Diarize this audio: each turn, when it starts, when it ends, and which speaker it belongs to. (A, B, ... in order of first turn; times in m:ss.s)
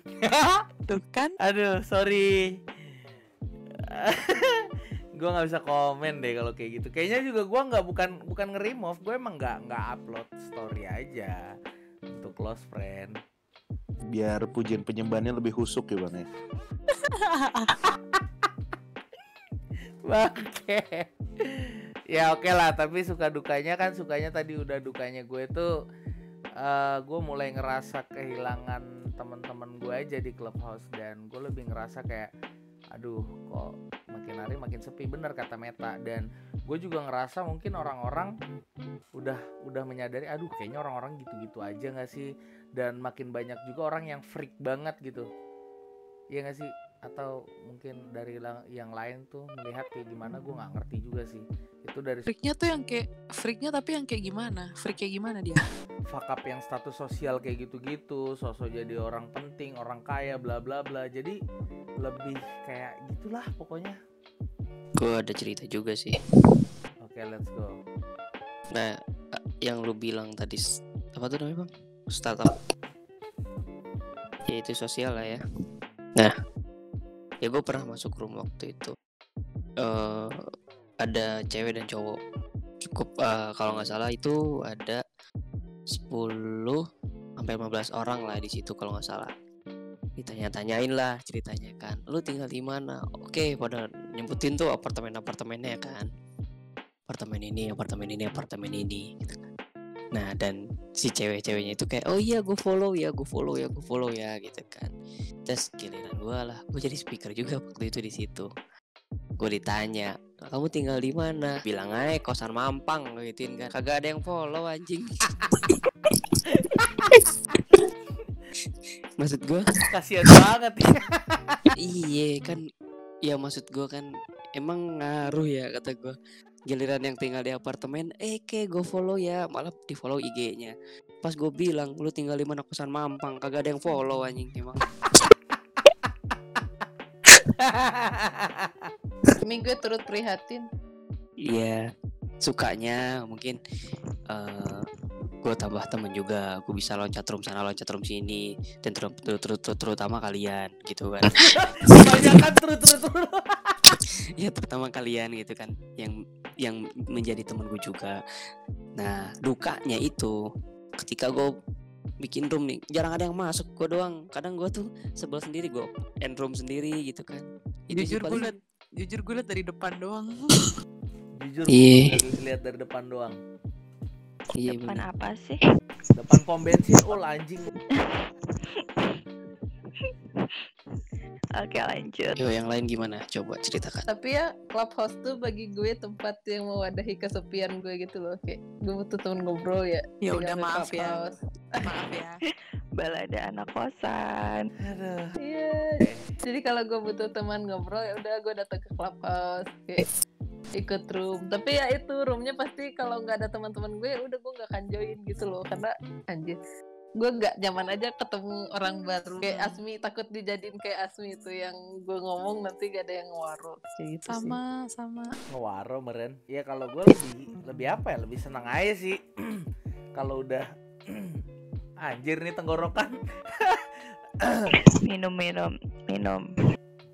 0:00.2-0:00.6 A
0:00.9-0:01.3 B
0:01.4-0:02.4 A
0:03.8-0:04.6 A
0:05.2-0:11.4 A
0:12.1-0:13.2 A
0:14.1-0:16.3 C
0:17.4-0:17.7 B
0:20.0-0:25.7 A
0:26.6-0:32.3 A
0:32.9-0:38.3 A
0:39.2-0:45.3 A
0:46.3-0:52.3 A
0:52.3-0:55.6 B
0:56.1-1:01.4 A
1:02.0-1:04.0 A
1:05.0-1:06.2 D
1:07.0-1:07.8 A
1:09.6-1:12.6 D
1:14.5-1:15.4 D
1:17.4-1:18.9 D
1:19.8-1:20.3 D
1:21.0-1:22.2 D
1:22.8-1:25.0 D
1:26.0-1:26.8 D
1:27.4-1:29.3 D
1:30.2-1:36.1 D
1:37.1-1:39.4 D
1:40.1-1:44.9 D
1:45.5-1:48.5 D
1:49.4-1:55.7 D
1:56.6-1:57.1 A
1:57.1-1:57.6 D
1:59.2-1:59.7 D
1:59.8-2:01.6 A
2:01.8-2:02.6 D
2:03.2-2:06.2 D
2:06.7-2:14.8 D
2:17.6-2:18.9 A
2:19.4-2:20.7 E
2:21.4-2:21.8 D
2:22.4-2:23.6 D
2:24.3-2:24.8 D
2:25.4-2:31.3 D
2:31.4-2:34.0 A
2:34.4-2:38.2 D
2:39.0-2:40.3 D
2:41.0-2:41.5 D
2:42.2-2:48.5 D
2:47.9-2:50.3 B
2:51.4-2:53.4 A
2:51.7-2:52.2 D
2:54.6-2:55.0 D
2:54.6-2:55.6 F
2:56.2-2:57.7 A
2:57.9-2:59.2 F
3:00.0-3:00.6 F
3:01.6-3:02.4 F
3:02.4-3:04.0 D
3:04.1-3:11.4 E
3:10.2-3:11.2 B
3:11.8-3:12.4 B
3:13.0-3:14.7 F
3:14.8-3:15.4 A
3:15.4-3:20.0 E
3:16.0-3:16.3 A
3:20.7-3:26.6 E
3:27.2-3:34.6 E
3:34.2-3:35.3 B
3:35.5-3:39.6 A
3:40.2-3:41.4 A
3:42.0-3:43.8 A
3:44.4-3:44.7 A
3:44.8-3:46.4 F